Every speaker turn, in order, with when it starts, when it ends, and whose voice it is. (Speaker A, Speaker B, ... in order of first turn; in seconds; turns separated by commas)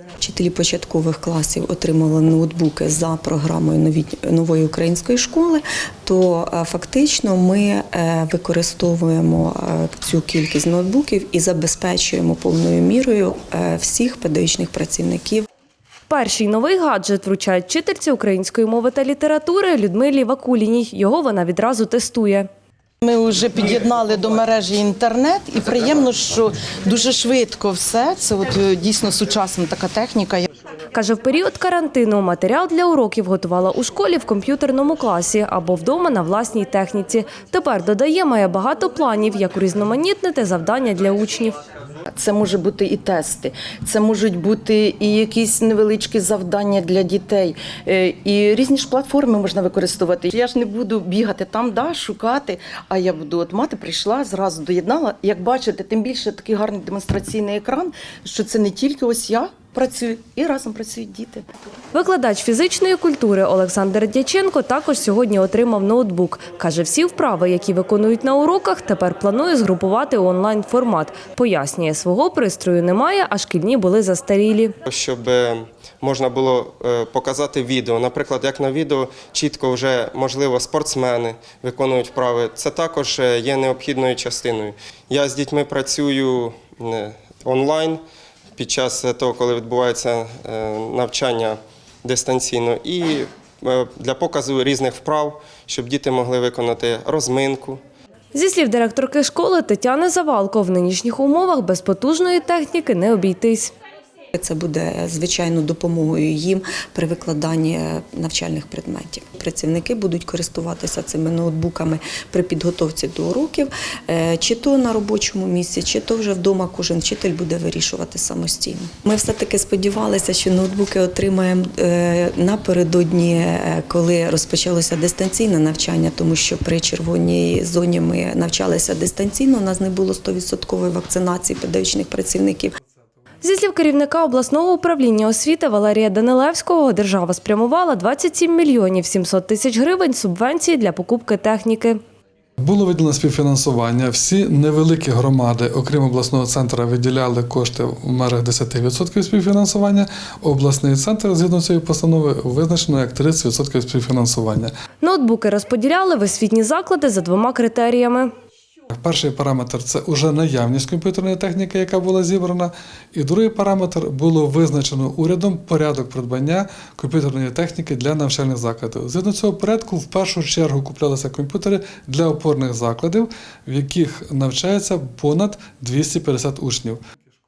Speaker A: 0.2-15.5, Speaker B: 16.1-22.5, Speaker C: 23.0-30.5, Speaker B: 30.9-41.5, Speaker C: 42.1-61.5, Speaker B: 61.9-74.8, Speaker D: 74.9-88.0, Speaker D: 88.6-97.8, Speaker B: 98.3-103.7, Speaker A: 104.3-132.7, Speaker B: 133.4-142.0, Speaker E: 142.6-154.7, Speaker B: 155.0-158.3, Speaker E: 158.9-177.0